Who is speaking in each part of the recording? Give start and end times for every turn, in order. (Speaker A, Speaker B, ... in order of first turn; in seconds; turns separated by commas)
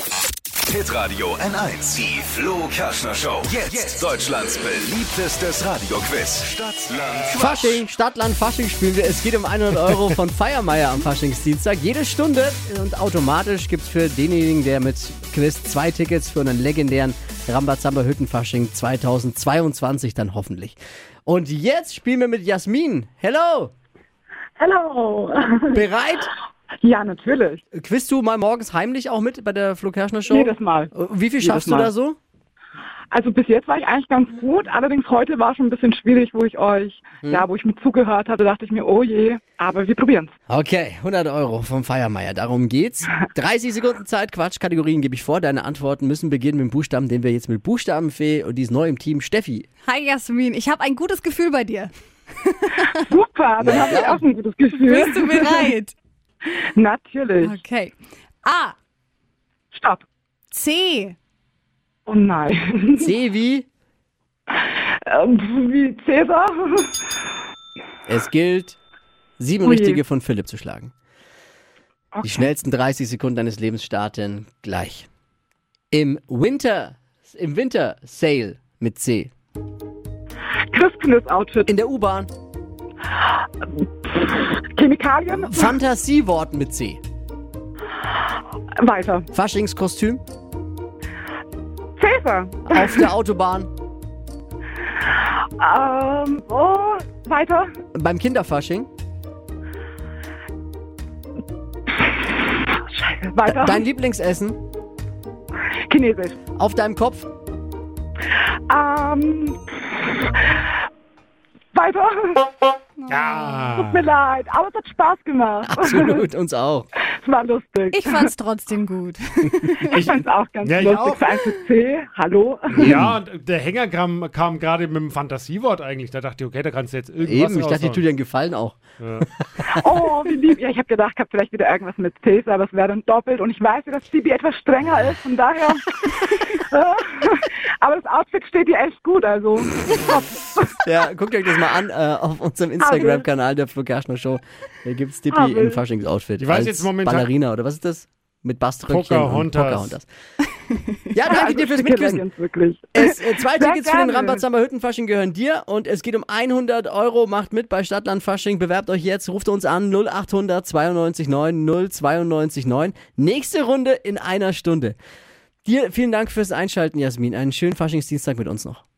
Speaker A: 0.6-7.8, Speaker B: 7.3-23.7, Speaker C: 24.6-25.8, Speaker B: 25.7-26.3, Speaker C: 26.8-27.6, Speaker B: 27.7-32.2, Speaker C: 30.3-31.9, Speaker C: 33.1-40.3, Speaker B: 40.5-49.7, Speaker D: 49.9-52.9, Speaker C: 53.1-55.7, Speaker B: 53.6-54.2, Speaker D: 54.9-56.0, Speaker C: 56.5-57.6, Speaker D: 57.4-58.8, Speaker C: 59.7-60.1, Speaker D: 60.5-61.2, Speaker C: 62.1-63.1, Speaker B: 63.0-63.7, Speaker C: 64.5-67.0, Speaker B: 68.1-68.8, Speaker B: 69.4-70.9, Speaker C: 69.6-70.0, Speaker C: 72.1-72.5, Speaker B: 72.2-75.1, Speaker B: 75.9-79.3, Speaker C: 80.7-81.7, Speaker B: 81.7-82.3, Speaker C: 84.0-85.8, Speaker B: 85.3-87.0, Speaker C: 88.8-89.3, Speaker B: 89.3-90.2, Speaker C: 92.0-93.1, Speaker B: 92.7-93.7, Speaker C: 95.6-97.7, Speaker B: 97.9-98.9, Speaker C: 102.5-103.8, Speaker B: 103.5-104.6, Speaker C: 105.9-106.4, Speaker B: 106.5-107.3, Speaker C: 108.7-110.1, Speaker C: 111.7-112.5, Speaker D: 113.0-113.6, Speaker E: 113.1-114.1, Speaker C: 113.7-116.2, Speaker B: 115.7-116.9, Speaker C: 117.2-118.3, Speaker D: 117.9-119.9, Speaker E: 119.9-121.4, Speaker C: 119.9-122.9, Speaker E: 122.8-128.0, Speaker B: 122.8-123.2, Speaker B: 127.2-129.7, Speaker E: 129.0-129.2, Speaker C: 129.6-140.8, Speaker B: 140.8-150.1, Speaker C: 142.8-143.2, Speaker C: 145.3-145.8, Speaker E: 146.4-147.3, Speaker E: 148.9-149.9, Speaker B: 151.1-152.2, Speaker C: 151.3-154.4, Speaker B: 152.9-165.0, Speaker B: 165.7-168.8